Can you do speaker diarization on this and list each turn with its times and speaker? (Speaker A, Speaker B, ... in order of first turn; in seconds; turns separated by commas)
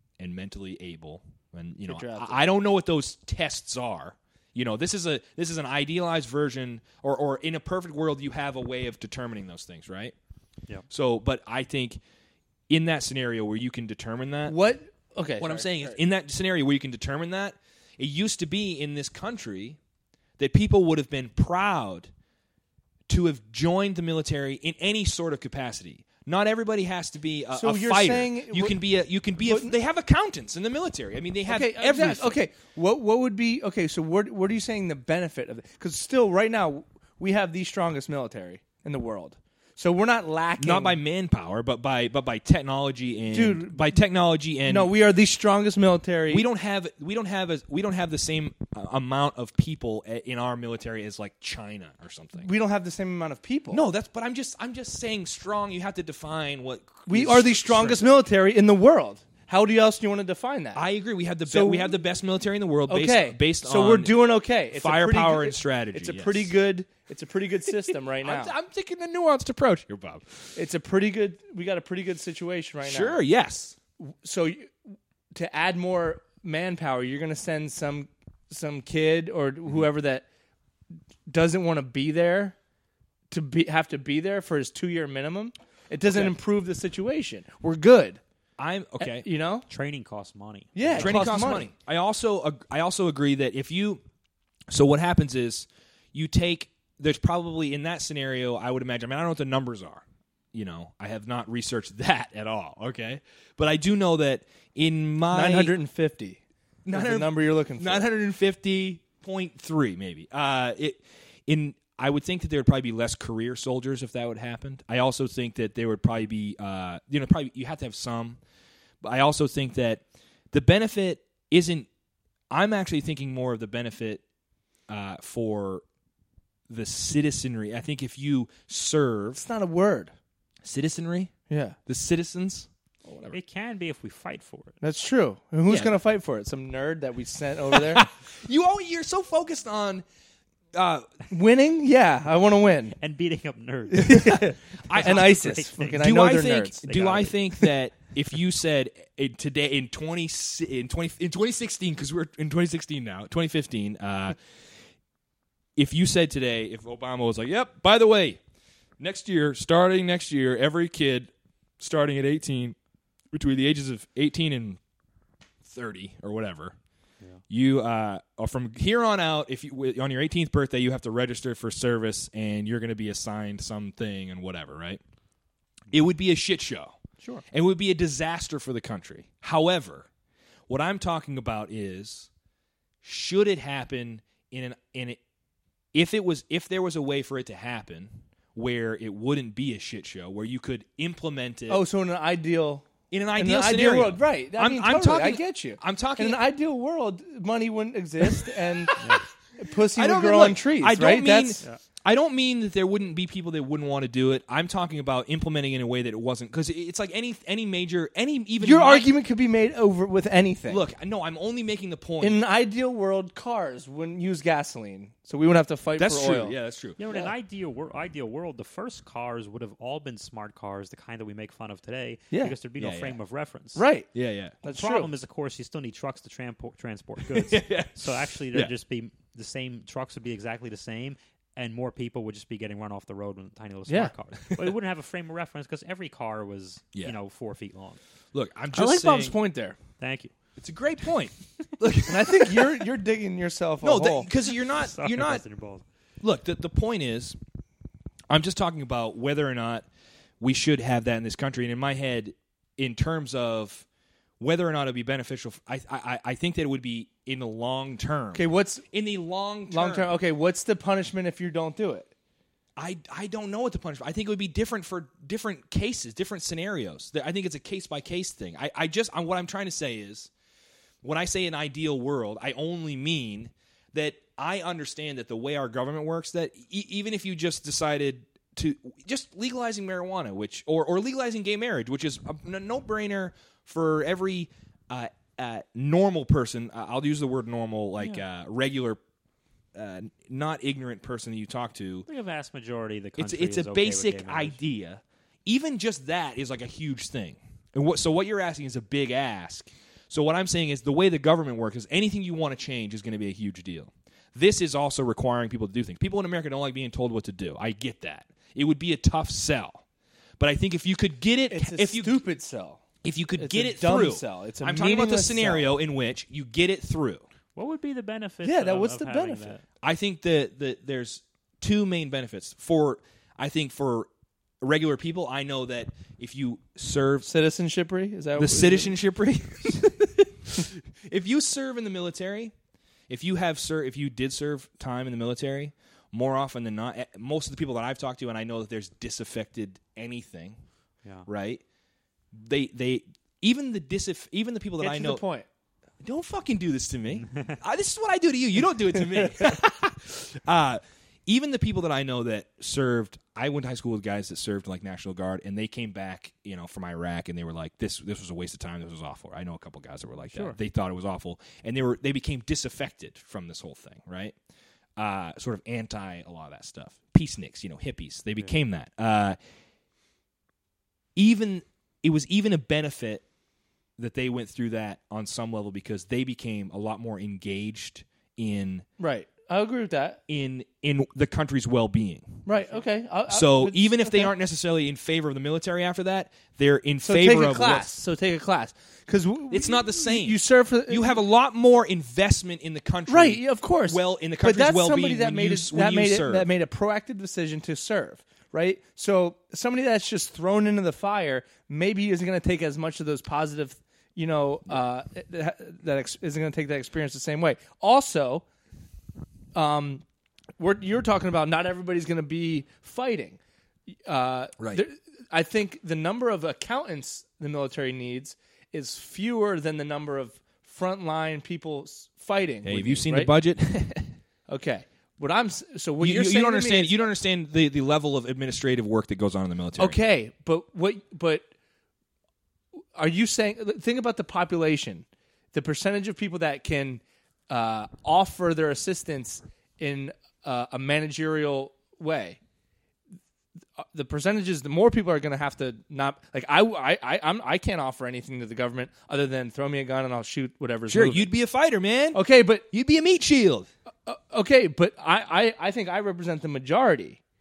Speaker A: 0.2-10.2, Speaker B: 1.9-2.4, Speaker A: 10.9-12.0, Speaker A: 12.7-14.6, Speaker B: 14.5-16.0, Speaker A: 15.4-19.8, Speaker A: 20.4-22.1, Speaker A: 23.1-32.4, Speaker B: 27.5-28.8, Speaker B: 29.4-29.8, Speaker B: 31.5-41.0, Speaker A: 40.6-44.9, Speaker B: 43.3-44.0, Speaker B: 44.6-46.5, Speaker A: 46.3-52.5, Speaker B: 52.4-53.8, Speaker A: 53.7-58.1, Speaker B: 57.1-60.8, Speaker A: 60.8-64.2, Speaker B: 61.5-62.0, Speaker B: 62.9-68.5, Speaker A: 64.7-66.5, Speaker A: 67.9-70.5, Speaker B: 70.6-73.2, Speaker A: 72.8-73.8, Speaker B: 74.0-74.7, Speaker B: 75.3-80.2, Speaker B: 81.3-82.6, Speaker B: 83.3-88.2, Speaker A: 86.1-86.3, Speaker A: 88.6-89.3, Speaker B: 89.0-89.7, Speaker C: 89.7-91.2, Speaker B: 90.8-91.7, Speaker A: 91.0-94.0, Speaker A: 94.7-105.7, Speaker B: 105.3-108.1, Speaker A: 106.8-118.4, Speaker A: 119.0-121.9, Speaker A: 122.5-124.2, Speaker A: 124.9-125.8, Speaker A: 126.7-129.4, Speaker B: 129.4-130.1, Speaker A: 130.6-131.3, Speaker B: 131.5-131.8, Speaker A: 131.9-133.4, Speaker C: 133.3-134.8, Speaker B: 134.8-138.1, Speaker A: 135.7-135.9, Speaker A: 137.7-140.1, Speaker A: 140.7-141.2, Speaker B: 141.3-143.0, Speaker C: 143.0-146.1, Speaker B: 143.9-147.3, Speaker A: 144.2-154.4, Speaker C: 146.9-147.3, Speaker A: 155.8-158.4, Speaker A: 159.0-162.8, Speaker A: 163.3-164.8, Speaker A: 165.6-166.8, Speaker A: 167.5-175.0, Speaker A: 175.9-177.0, Speaker A: 177.5-180.1, Speaker A: 180.7-182.3, Speaker A: 183.0-185.2, Speaker A: 185.9-191.8, Speaker B: 191.7-199.0, Speaker A: 193.1-196.4, Speaker C: 199.0-199.2, Speaker B: 199.6-201.6, Speaker A: 199.9-209.1, Speaker B: 208.6-210.8, Speaker A: 210.7-212.4, Speaker B: 212.2-216.6, Speaker A: 216.0-217.0, Speaker C: 217.0-223.8, Speaker A: 222.8-223.2, Speaker B: 223.8-224.1, Speaker A: 224.1-224.6, Speaker B: 224.6-225.1, Speaker C: 224.7-238.0, Speaker A: 227.3-228.7, Speaker B: 233.9-234.1, Speaker A: 238.3-239.4, Speaker B: 238.7-239.8, Speaker C: 240.0-240.3, Speaker A: 240.6-242.8, Speaker B: 242.1-244.3, Speaker A: 243.8-245.4, Speaker C: 244.7-245.8, Speaker A: 246.2-247.4, Speaker A: 248.3-249.9, Speaker A: 250.4-253.8, Speaker A: 254.4-260.1, Speaker B: 258.3-258.9, Speaker B: 259.7-262.1, Speaker A: 262.8-270.3, Speaker A: 271.0-289.0, Speaker A: 289.7-292.1, Speaker C: 292.1-294.6, Speaker A: 293.2-309.8, Speaker A: 310.4-312.2, Speaker B: 311.5-312.8, Speaker A: 313.0-317.3, Speaker B: 313.4-315.7, Speaker C: 317.6-319.6, Speaker B: 318.4-319.6, Speaker A: 319.8-324.1, Speaker A: 324.6-327.3, Speaker B: 327.2-328.9, Speaker A: 328.4-332.5, Speaker A: 333.1-340.6, Speaker A: 341.3-341.6, Speaker A: 342.3-345.2, Speaker B: 344.8-345.5, Speaker A: 346.0-364.4, Speaker C: 347.3-347.6, Speaker C: 360.3-360.6, Speaker A: 365.0-369.4, Speaker A: 371.2-373.2, Speaker A: 374.0-378.9, Speaker B: 379.0-380.2, Speaker A: 380.3-382.5, Speaker B: 382.4-384.3, Speaker A: 383.3-387.9, Speaker B: 387.0-391.2, Speaker A: 389.5-396.5, Speaker B: 393.1-408.4, Speaker B: 409.5-410.0, Speaker B: 410.6-413.4, Speaker B: 414.1-423.3, Speaker A: 414.6-414.8, Speaker A: 422.6-424.1, Speaker B: 424.5-427.0, Speaker A: 426.0-430.0, Speaker B: 429.8-431.5, Speaker B: 432.9-442.4, Speaker B: 443.8-451.3, Speaker A: 450.9-453.7, Speaker B: 452.1-452.6, Speaker B: 454.1-457.2